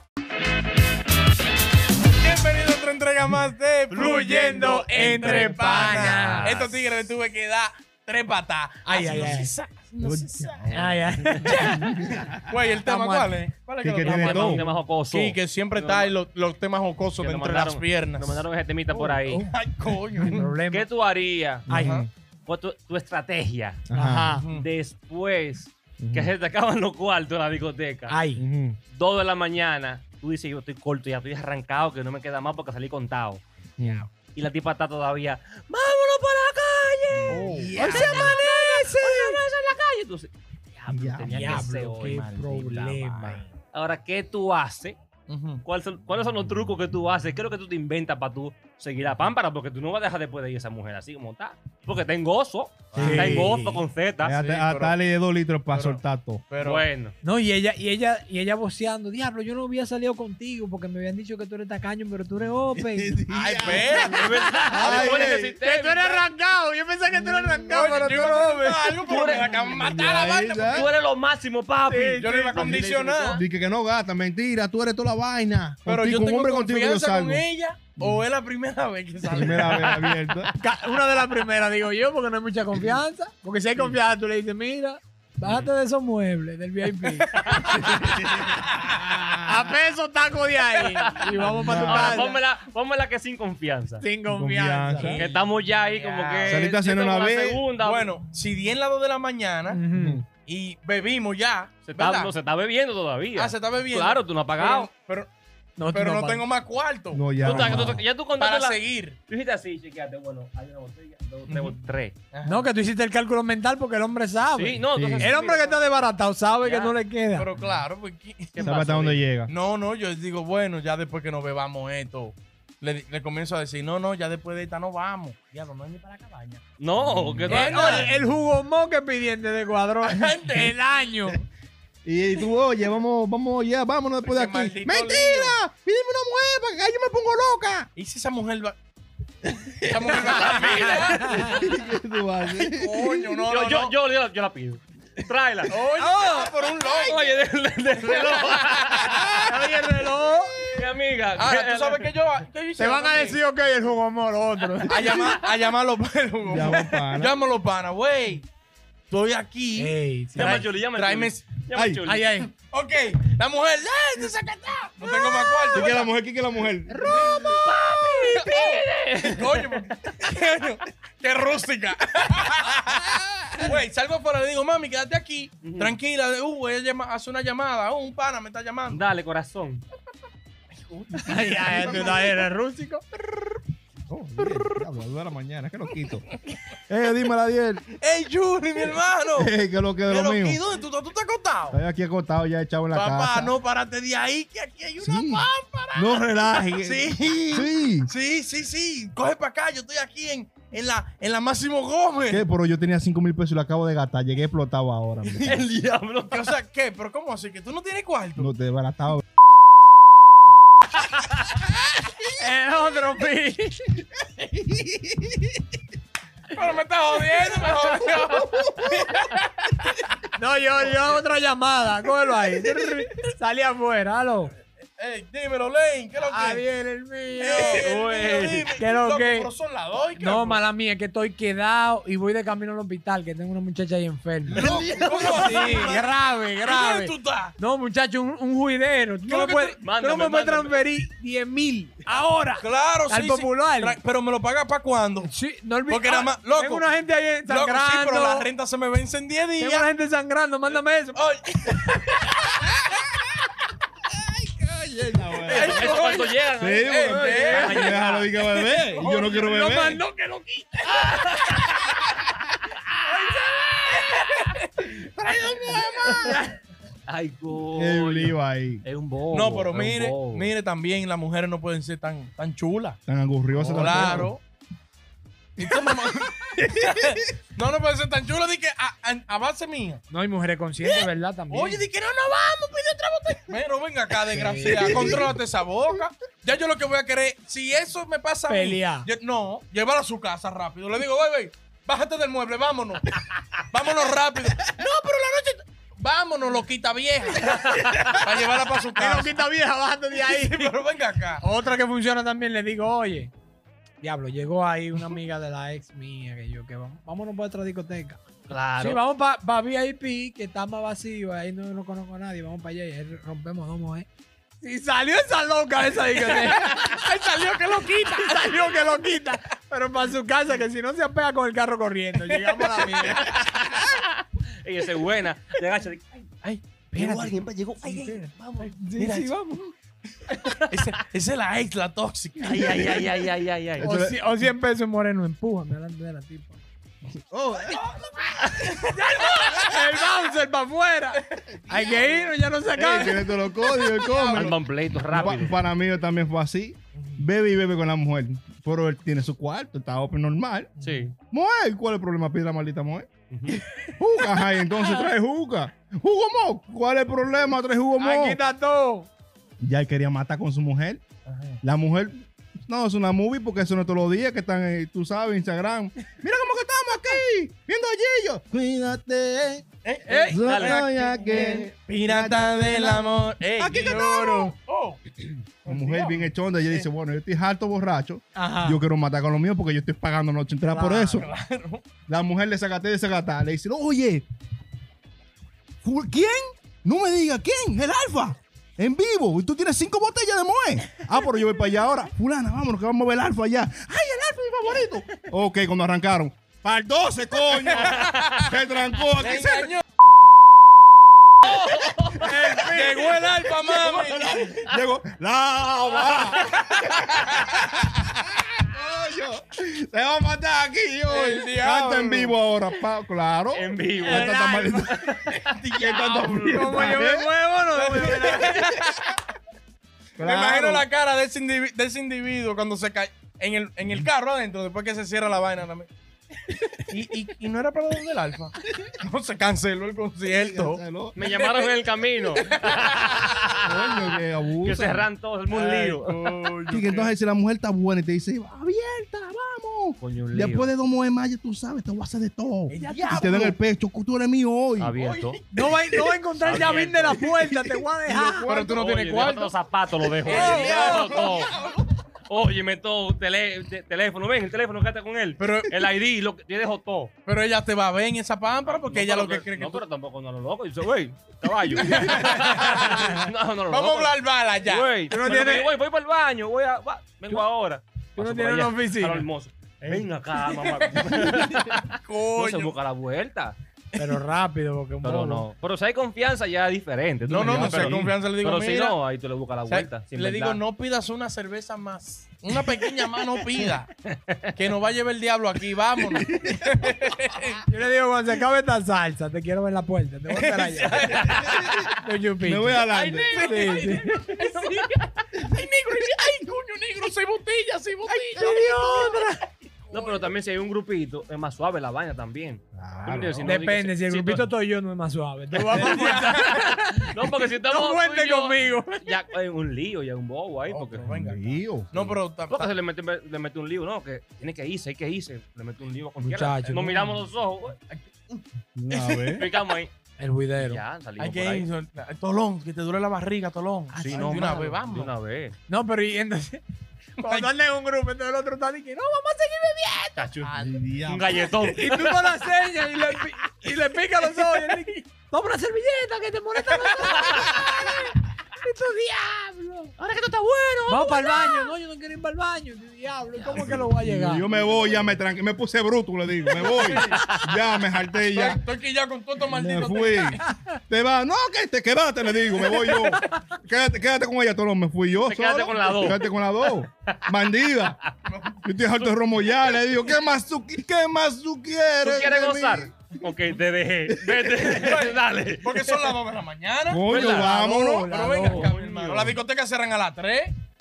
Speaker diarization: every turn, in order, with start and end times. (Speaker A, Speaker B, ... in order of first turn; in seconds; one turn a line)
Speaker A: 2.1-10.8
Speaker B: 3.9-6.6
Speaker C: 4.9-7.0
Speaker B: 8.8-9.5
Speaker D: 10.0-12.3
Speaker B: 10.7-12.2
Speaker A: 11.4-11.8
Speaker A: 12.4-18.4
Speaker B: 12.7-13.4
Speaker D: 13.8-14.7
Speaker C: 14.0-16.1
Speaker C: 17.2-19.5
Speaker A: 18.9-20.5
Speaker B: 20.3-20.9
Speaker C: 20.5-21.7
Speaker D: 21.7-22.0
Speaker B: 21.7-22.1
Speaker A: 21.8-22.1
Speaker C: 22.5-23.9
Speaker D: 23.9-24.4
Speaker B: 23.9-24.4
Speaker A: 24.3-24.7
Speaker C: 24.5-28.2
Speaker D: 26.0-26.3
Speaker B: 28.1-28.4
Speaker D: 28.4-28.8
Speaker C: 28.9-33.4
Speaker D: 33.8-34.1
Speaker C: 34.3-45.0
Speaker D: 37.2-39.4
Speaker A: 37.3-38.0
Speaker B: 37.6-38.4
Speaker D: 40.9-41.5
Speaker B: 41.3-43.4
Speaker A: 45.3-45.6
Speaker C: 45.6-54.4
Speaker D: 52.9-53.6
Speaker B: 53.0-53.8
Speaker D: 54.2-56.4
Speaker A: 54.3-55.0
Speaker A: 55.7-56.9
Speaker C: 56.6-57.1
Speaker B: 57.2-69.0
Speaker D: 62.8-64.0
Speaker A: 63.3-64.2
Speaker C: 63.9-66.3
Speaker D: 64.7-65.5
Speaker D: 67.1-68.4
Speaker A: 67.7-70.9
Speaker C: 69.0-73.4
Speaker D: 69.8-70.9
Speaker B: 71.9-72.6
Speaker A: 72.2-73.4
Speaker D: 72.5-77.4
Speaker A: 75.8-80.0
Speaker D: 78.0-78.2
Speaker D: 79.2-80.5
Speaker C: 79.6-80.2
Speaker B: 80.6-88.4
Speaker C: 87.3-88.2
Speaker D: 88.2-89.3
Speaker B: 89.3-92.4
Speaker C: 90.8-94.0
Speaker D: 91.5-92.2
Speaker B: 94.0-95.2
Speaker D: 94.3-95.3
Speaker C: 95.0-98.2
Speaker A: 95.2-96.7
Speaker D: 96.5-97.6
Speaker A: 97.8-99.8
Speaker B: 99.7-100.2
Speaker D: 99.9-100.2
Speaker A: 100.4-102.3
Speaker C: 101.8-104.9
Speaker A: 103.3-105.3
Speaker B: 105.8-106.5
Speaker A: 105.9-109.2
Speaker D: 107.1-108.0
Speaker C: 107.4-112.2
Speaker A: 111.5-112.7
Speaker B: 112.5-117.5
Speaker C: 114.5-115.8
Speaker D: 114.9-115.3
Speaker C: 116.6-117.0
Speaker A: 117.3-118.7
Speaker C: 118.5-119.3
Speaker D: 118.6-119.5
Speaker A: 119.5-126.6
Speaker C: 126.8-128.1
Speaker D: 127.0-127.8
Speaker A: 127.5-128.1
Speaker B: 127.5-131.4
Speaker A: 130.0-130.8
Speaker D: 132.1-137.9
Speaker A: 134.2-135.6
Speaker A: 138.0-138.8
Speaker D: 139.6-140.1
Speaker A: 139.8-141.5
Speaker C: 140.1-141.4
Speaker B: 140.9-141.3
Speaker D: 141.2-143.4
Speaker A: 142.6-143.9
Speaker C: 143.5-145.8
Speaker A: 145.7-149.5
Speaker B: 146.0-146.5
Speaker C: 146.3-149.6
Speaker B: 149.3-150.8
Speaker C: 150.7-152.2
Speaker A: 151.3-153.4
Speaker B: 152.8-155.3
Speaker A: 154.9-158.5
Speaker D: 156.4-157.4
Speaker A: 159.1-161.5
Speaker B: 159.8-160.7
Speaker C: 160.4-162.3
Speaker D: 161.7-162.1
Speaker B: 162.1-162.5
Speaker A: 162.7-166.1
Speaker B: 165.3-165.9
Speaker D: 165.7-167.5
Speaker B: 166.9-167.8
Speaker A: 167.0-167.7
Speaker C: 167.0-170.1
Speaker A: 168.3-179.1
Speaker C: 175.6-176.0
Speaker C: 178.9-179.8
Speaker A: 180.9-182.4
Speaker B: 181.1-183.0
Speaker D: 184.1-186.3
Speaker D: 186.9-187.9
Speaker A: 187.9-189.5
Speaker D: 189.3-190.6
Speaker A: 190.1-191.8
Speaker D: 191.7-193.6
Speaker A: 192.9-202.4
Speaker D: 195.0-198.1
Speaker D: 202.3-205.7
Speaker C: 205.2-206.5
Speaker A: 206.3-208.5
Speaker D: 208.4-209.2
Speaker B: 212.3-214.0
Speaker D: 214.3-215.6
Speaker A: 216.5-219.8
Speaker B: 220.3-224.5
Speaker A: 220.8-221.2
Speaker A: 225.0-226.6
Speaker B: 226.2-227.9
Speaker A: 227.4-230.6
Speaker C: 227.5-228.7
Speaker B: 228.8-229.5
Speaker B: 230.2-244.0
Speaker D: 234.5-235.9
Speaker A: 234.6-237.6
Speaker A: 239.3-239.8
Speaker C: 239.8-240.8
Speaker A: 242.6-245.3
Speaker B: 245.2-248.5
Speaker A: 245.9-246.9
Speaker A: 247.5-249.9
Speaker B: 249.6-251.9
Speaker A: 250.7-252.4
Speaker D: 254.1-260.0
Speaker A: 255.5-258.0
Speaker C: 255.5-258.3
Speaker A: 258.6-259.7
Speaker B: 259.4-261.8
Speaker C: 260.9-261.9
Speaker B: 263.1-264.5
Speaker D: 264.9-266.4
Speaker C: 265.4-266.5
Speaker C: 267.1-270.5
Speaker D: 267.8-268.8
Speaker A: 269.3-273.0
Speaker D: 273.1-274.3
Speaker C: 273.6-274.3
Speaker A: 273.7-274.4
Speaker A: 275.6-280.0
Speaker B: 280.1-281.9
Speaker A: 280.8-293.2
Speaker B: 284.3-285.2
Speaker D: 284.5-285.3
Speaker B: 288.5-289.1
Speaker A: 293.7-299.4
Speaker C: 297.6-298.1
Speaker B: 298.9-300.8
Speaker A: 300.1-301.4
Speaker B: 301.4-303.3
Speaker B: 304.0-308.2
Speaker C: 308.5-309.0
Speaker B: 308.8-314.1
Speaker B: 314.6-317.2
Speaker A: 316.1-319.0
Speaker B: 318.0-323.6
Speaker A: 322.2-323.6
Speaker C: 324.6-326.3
Speaker A: 326.4-327.3
Speaker C: 326.9-328.7
Speaker B: 327.8-329.7
Speaker A: 328.9-329.3
Speaker B: 330.3-330.7
Speaker A: 330.7-332.8
Speaker C: 332.4-333.9
Speaker D: 333.8-334.2
Speaker B: 333.8-336.6
Speaker D: 337.2-337.8
Speaker A: 337.8-339.8
Speaker C: 338.4-338.7
Speaker B: 338.9-343.3
Speaker A: 341.4-342.2
Speaker D: 342.8-344.6
Speaker A: 343.7-344.6
Speaker C: 344.3-345.6
Speaker D: 345.1-350.7
Speaker B: 350.8-351.1
Speaker C: 350.8-351.1
Speaker D: 351.3-353.1
Speaker C: 353.3-353.6
Speaker D: 353.8-358.4
Speaker B: 358.0-359.1
Speaker D: 359.6-361.0
Speaker A: 361.3-361.6
Speaker D: 361.6-369.7
Speaker A: 369.8-375.0
Speaker B: 370.1-370.4
Speaker D: 370.2-374.6
Speaker C: 370.4-370.8
Speaker A: 375.6-376.9
Speaker D: 375.6-381.3
Speaker B: 378.4-378.8
Speaker B: 380.7-381.2
Speaker A: 381.2-381.9
Speaker D: 382.1-384.2
Speaker D: 385.8-399.8
Speaker A: 397.7-398.5
Speaker A: 399.2-399.8
Speaker C: 401.4-402.3
Speaker D: 401.5-402.8
Speaker B: 402.2-403.5
Speaker A: 402.5-404.4
Speaker D: 403.7-415.1
Speaker C: 405.9-406.6
Speaker A: 411.1-412.4
Speaker C: 413.5-414.4
Speaker B: 414.0-414.9
Speaker C: 414.9-415.6
Speaker A: 415.3-417.0
Speaker D: 415.7-417.3
Speaker B: 416.5-418.7
Speaker A: 417.7-419.1
Speaker D: 420.2-420.9
Speaker A: 420.2-425.9
Speaker A: 426.9-431.8
Speaker D: 430.3-431.2
Speaker C: 431.1-434.0
Speaker A: 432.4-433.5
Speaker D: 433.6-435.1
Speaker C: 434.6-436.5
Speaker A: 435.5-437.1
Speaker D: 436.7-444.9
Speaker C: 440.0-440.7
Speaker A: 442.7-443.6
Speaker C: 444.8-445.4
Speaker A: 445.0-447.1
Speaker B: 445.5-448.5
Speaker C: 446.4-447.3
Speaker D: 448.1-448.5
Speaker A: 448.4-451.9
Speaker C: 448.5-451.5
Speaker B: 450.3-451.3
Speaker C: 452.3-457.1
Speaker A: 455.4-455.8
Speaker A: 457.3-459.8
Speaker C: 458.6-473.6
Speaker D: 461.7-462.3
Speaker A: 461.8-464.9
Speaker B: 465.1-465.7
Speaker B: 468.2-469.3
Speaker A: 470.6-471.5
Speaker A: 472.0-472.8
Speaker B: 474.0-475.5
Speaker C: 475.0-480.6
Speaker D: 477.2-478.2
Speaker A: 477.3-479.0
Speaker A: 479.7-483.9
Speaker C: 482.5-484.5
Speaker A: 484.6-487.6
Speaker B: 487.7-491.2
Speaker A: 490.3-491.9
Speaker C: 490.8-491.7
Speaker D: 491.5-491.9
Speaker B: 492.0-492.9
Speaker D: 492.4-493.4
Speaker C: 492.9-495.1
Speaker A: 493.3-499.2
Speaker B: 493.4-494.1
Speaker B: 498.1-499.5
Speaker A: 499.9-500.3
Speaker C: 499.9-504.5
Speaker D: 502.8-503.5
Speaker B: 503.4-509.1
Speaker A: 505.5-506.7
Speaker C: 505.7-511.1
Speaker A: 510.7-512.7
Speaker D: 511.1-511.9
Speaker C: 511.9-517.8
Speaker B: 516.2-517.2
Speaker A: 517.9-519.4
Speaker D: 518.8-519.5
Speaker C: 519.4-519.9
Speaker B: 520.2-520.8
Speaker C: 520.6-521.7
Speaker A: 521.2-525.1
Speaker C: 523.9-525.6
Speaker B: 524.0-524.7
Speaker B: 525.7-526.6
Speaker A: 527.2-527.5
Speaker B: 527.2-530.3
Speaker C: 530.2-530.5
Speaker A: 530.5-530.9
Speaker D: 530.6-531.5
Speaker C: 531.0-532.4
Speaker B: 531.7-539.9
Speaker C: 537.1-537.7
Speaker C: 540.0-541.7
Speaker B: 540.9-545.0
Speaker C: 543.4-543.9
Speaker D: 543.5-548.6
Speaker C: 544.5-545.1
Speaker A: 546.6-547.2
Speaker C: 547.0-547.5
Speaker A: 548.3-550.4
Speaker D: 549.5-558.0
Speaker B: 552.8-553.1
Speaker C: 555.2-556.7
Speaker A: 558.3-559.3
Speaker D: 558.6-563.2
Speaker C: 562.0-566.2
Speaker D: 564.1-564.5
Speaker A: 564.6-567.5
Speaker D: 566.9-568.1
Speaker C: 567.0-567.6
Speaker B: 567.1-568.7
Speaker A: 568.0-570.5
Speaker C: 568.2-569.4